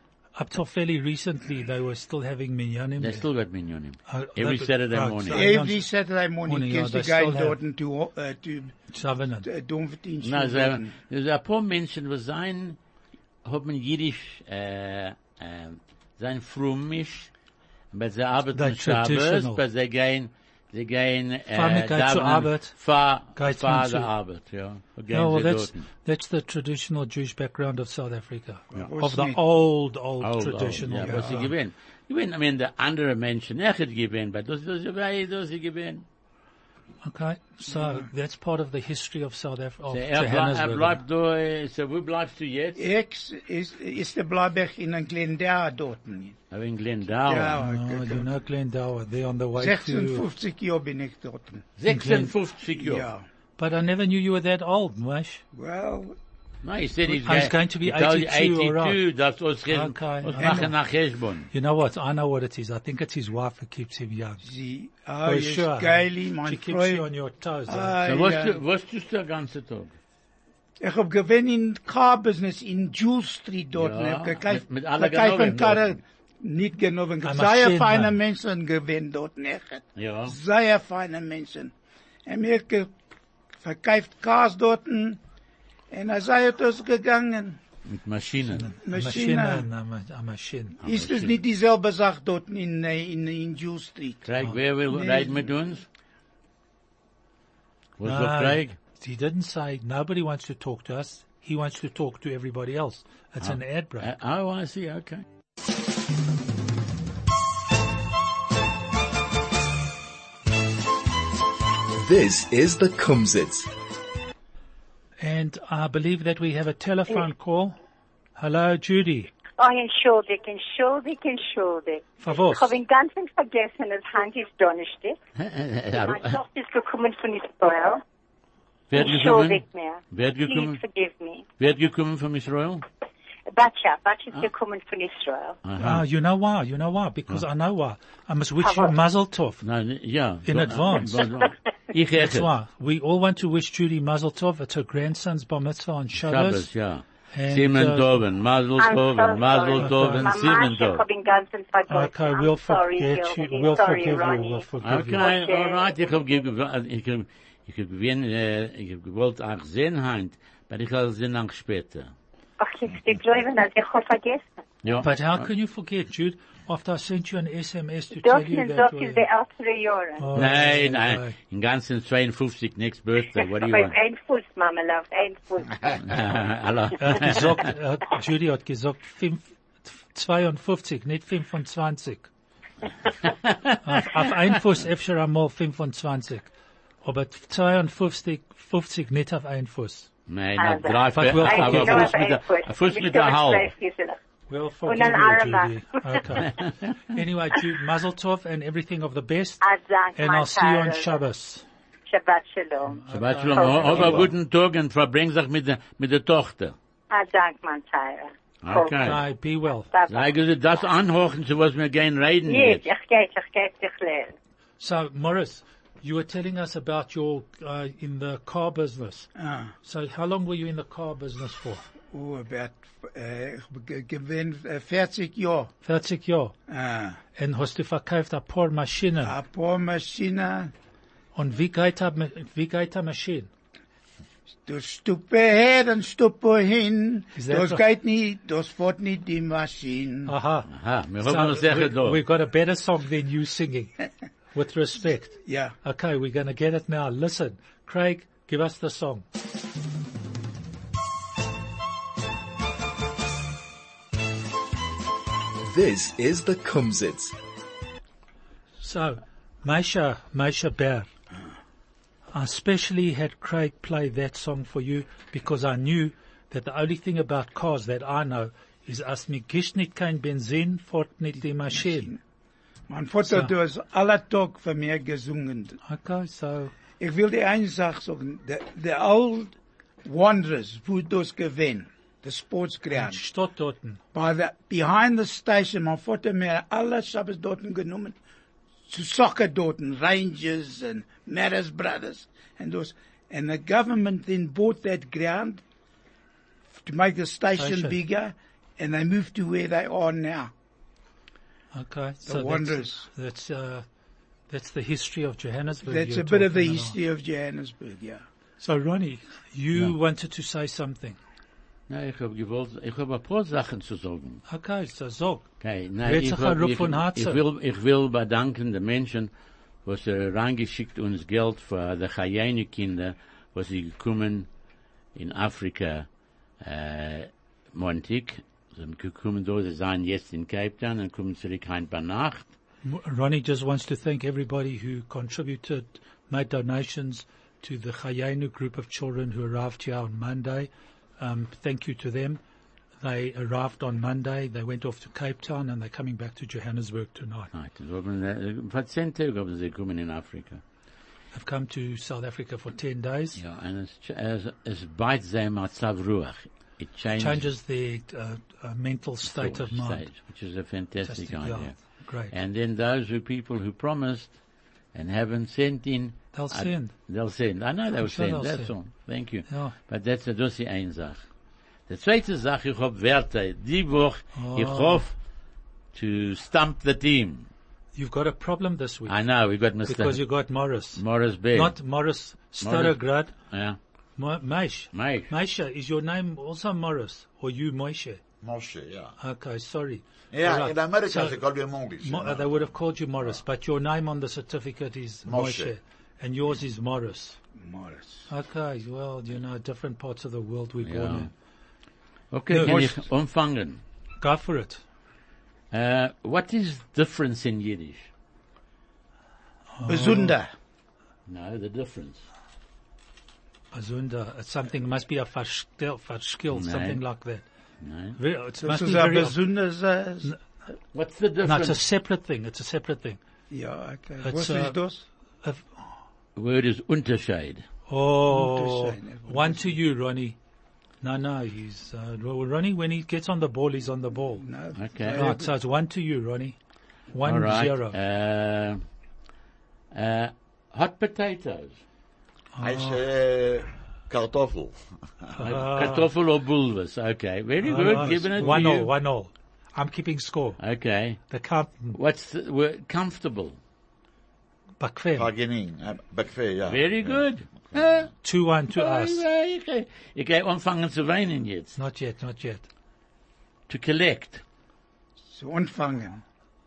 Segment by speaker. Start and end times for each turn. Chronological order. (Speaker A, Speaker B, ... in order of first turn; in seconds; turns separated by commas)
Speaker A: 0.3-3.2, Speaker B: 3.0-5.5, Speaker A: 4.1-5.8, Speaker C: 5.3-8.9, Speaker A: 6.5-7.6, Speaker A: 8.9-9.4, Speaker C: 9.4-10.9, Speaker B: 10.2-12.8, Speaker B: 13.4-17.3, Speaker B: 17.9-25.9, Speaker A: 18.5-19.6, Speaker A: 21.5-22.7, Speaker A: 23.4-24.1, Speaker A: 25.1-31.4, Speaker C: 28.7-29.4, Speaker B: 30.2-36.0, Speaker C: 31.0-31.5, Speaker A: 37.0-41.0, Speaker B: 39.9-42.8, Speaker C: 42.8-46.4, Speaker B: 46.5-47.6, Speaker C: 47.2-48.3, Speaker A: 47.5-50.2, Speaker C: 49.6-51.6, Speaker B: 51.8-53.1, Speaker A: 51.9-52.3, Speaker C: 52.7-53.2, Speaker A: 53.6-55.4, Speaker C: 55.5-56.1, Speaker B: 56.6-61.5, Speaker A: 57.1-59.0, Speaker A: 59.6-60.7, Speaker C: 60.4-60.7, Speaker A: 61.5-64.4, Speaker C: 64.4-67.0, Speaker A: 65.2-68.0, Speaker C: 67.7-68.6, Speaker B: 68.0-69.9, Speaker C: 70.8-81.7, Speaker B: 73.7-76.0, Speaker A: 77.2-78.2, Speaker B: 80.0-80.3, Speaker C: 82.2-82.9, Speaker C: 83.6-85.2, Speaker C: 85.9-87.6, Speaker B: 87.8-88.7, Speaker A: 88.7-90.8, Speaker C: 88.8-89.7, Speaker B: 90.8-91.3, Speaker C: 90.8-94.3, Speaker B: 94.2-95.8, Speaker C: 94.9-95.5, Speaker B: 98.0-98.8, Speaker A: 98.0-104.1, Speaker B: 103.4-105.2, Speaker D: 112.0-113.7, Speaker A: 115.2-117.8, Speaker A: 118.3-119.3, Speaker E: 119.6-125.2, Speaker A: 122.2-122.7, Speaker B: 125.4-126.4, Speaker E: 125.9-128.0, Speaker B: 128.9-130.8, Speaker E: 128.9-131.5, Speaker B: 131.6-132.8, Speaker E: 133.5-135.6, Speaker B: 135.6-136.0, Speaker A: 135.8-139.6, Speaker E: 138.6-138.9, Speaker B: 139.6-142.5, Speaker A: 140.4-141.2, Speaker A: 142.1-146.7, Speaker B: 146.2-151.0, Speaker A: 147.3-148.2, Speaker E: 148.8-155.9, Speaker A: 149.8-150.3, Speaker A: 151.9-155.3, Speaker B: 154.8-162.1, Speaker E: 162.6-164.4, Speaker B: 164.8-165.4, Speaker A: 165.0-169.2, Speaker E: 168.1-170.4, Speaker A: 170.2-171.3, Speaker B: 170.3-173.9, Speaker E: 173.5-176.1, Speaker B: 176.0-177.7, Speaker A: 177.0-182.3, Speaker B: 183.2-184.2, Speaker A: 183.8-186.5, Speaker A: 187.0-190.1, Speaker B: 190.3-193.7, Speaker E: 190.6-194.2, Speaker A: 191.1-192.2, Speaker A: 194.5-199.6, Speaker E: 194.8-196.5, Speaker E: 199.6-201.2, Speaker A: 200.2-201.6, Speaker E: 202.1-204.2, Speaker A: 202.9-204.3, Speaker B: 203.1-206.7, Speaker E: 207.1-209.3, Speaker B: 208.6-209.2, Speaker A: 209.0-209.9, Speaker E: 209.9-210.3, Speaker B: 210.1-212.9, Speaker E: 212.4-214.3, Speaker A: 214.8-219.3, Speaker C: 219.4-219.7, Speaker A: 219.8-221.8, Speaker C: 222.1-225.7, Speaker A: 225.8-226.5, Speaker C: 226.7-227.2, Speaker A: 227.3-229.3, Speaker C: 229.2-230.7, Speaker A: 231.3-233.5, Speaker C: 234.7-240.3, Speaker A: 237.3-237.8, Speaker A: 240.2-240.7, Speaker B: 240.7-242.2, Speaker A: 241.2-243.9, Speaker A: 244.5-249.2, Speaker C: 245.4-245.7, Speaker D: 255.6-257.4, Speaker A: 258.8-261.1, Speaker A: 262.3-272.1, Speaker C: 271.7-272.2, Speaker C: 272.9-275.8, Speaker A: 273.2-273.5, Speaker A: 275.8-276.7, Speaker C: 277.0-283.2, Speaker A: 282.9-284.0, Speaker C: 284.1-288.1, Speaker C: 288.9-295.6, Speaker C: 296.8-300.5, Speaker A: 297.6-298.0, Speaker A: 301.7-303.8, Speaker C: 302.2-303.1, Speaker A: 304.5-307.0, Speaker C: 305.8-308.2, Speaker A: 308.6-311.2, Speaker B: 311.9-314.4, Speaker A: 314.5-315.5, Speaker B: 315.6-319.3, Speaker A: 316.0-317.4, Speaker B: 319.8-324.5, Speaker B: 325.1-326.1, Speaker B: 326.6-332.5, Speaker A: 332.8-342.4, Speaker A: 343.0-347.5, Speaker B: 347.5-350.6, Speaker A: 351.3-353.4, Speaker B: 353.4-357.5, Speaker A: 357.2-360.1, Speaker B: 359.3-364.4, Speaker A: 361.0-362.3, Speaker B: 364.9-371.2, Speaker A: 366.3-366.9, Speaker A: 368.0-368.8, Speaker A: 369.5-369.7, Speaker B: 371.9-375.1, Speaker A: 374.3-375.0, Speaker B: 375.9-377.5, Speaker A: 377.9-379.2, Speaker B: 379.1-380.2, Speaker A: 379.8-381.0, Speaker B: 380.9-381.8, Speaker A: 381.5-383.3, Speaker B: 382.6-383.8, Speaker A: 384.2-388.2, Speaker B: 384.9-385.3, Speaker F: 388.4-389.1, Speaker A: 389.2-391.4, Speaker F: 390.3-392.7, Speaker A: 392.0-397.4, Speaker F: 395.2-395.7, Speaker C: 397.6-398.3, Speaker A: 398.3-401.3, Speaker B: 400.8-401.3, Speaker B: 402.3-403.8, Speaker A: 402.5-403.0, Speaker A: 404.2-404.8, Speaker B: 405.7-408.1, Speaker A: 409.8-410.3, Speaker C: 409.9-410.5, Speaker B: 411.3-412.2, Speaker A: 413.7-417.4, Speaker B: 416.5-417.0, Speaker B: 417.8-418.2, Speaker A: 418.1-419.4, Speaker C: 418.6-420.3, Speaker B: 420.9-421.8, Speaker A: 421.4-423.2, Speaker C: 423.5-425.0, Speaker A: 424.2-424.8, Speaker A: 425.4-425.8, Speaker B: 426.4-427.6, Speaker A: 427.9-430.4, Speaker C: 428.3-429.8, Speaker A: 431.0-434.4, Speaker C: 434.4-435.5, Speaker B: 434.7-435.2, Speaker A: 435.1-436.6, Speaker A: 437.1-438.0, Speaker B: 437.2-438.8, Speaker B: 439.9-441.8, Speaker A: 442.6-443.0, Speaker F: 442.6-445.4, Speaker A: 445.4-446.1, Speaker B: 445.4-448.9, Speaker A: 447.6-450.6, Speaker F: 448.0-448.7, Speaker B: 450.6-451.2, Speaker A: 451.3-452.0, Speaker B: 451.9-453.6, Speaker A: 454.8-455.3, Speaker F: 455.1-458.1, Speaker B: 456.6-458.1, Speaker A: 458.2-459.2, Speaker B: 458.7-461.8, Speaker A: 461.8-462.7, Speaker B: 463.7-464.4, Speaker C: 465.3-466.2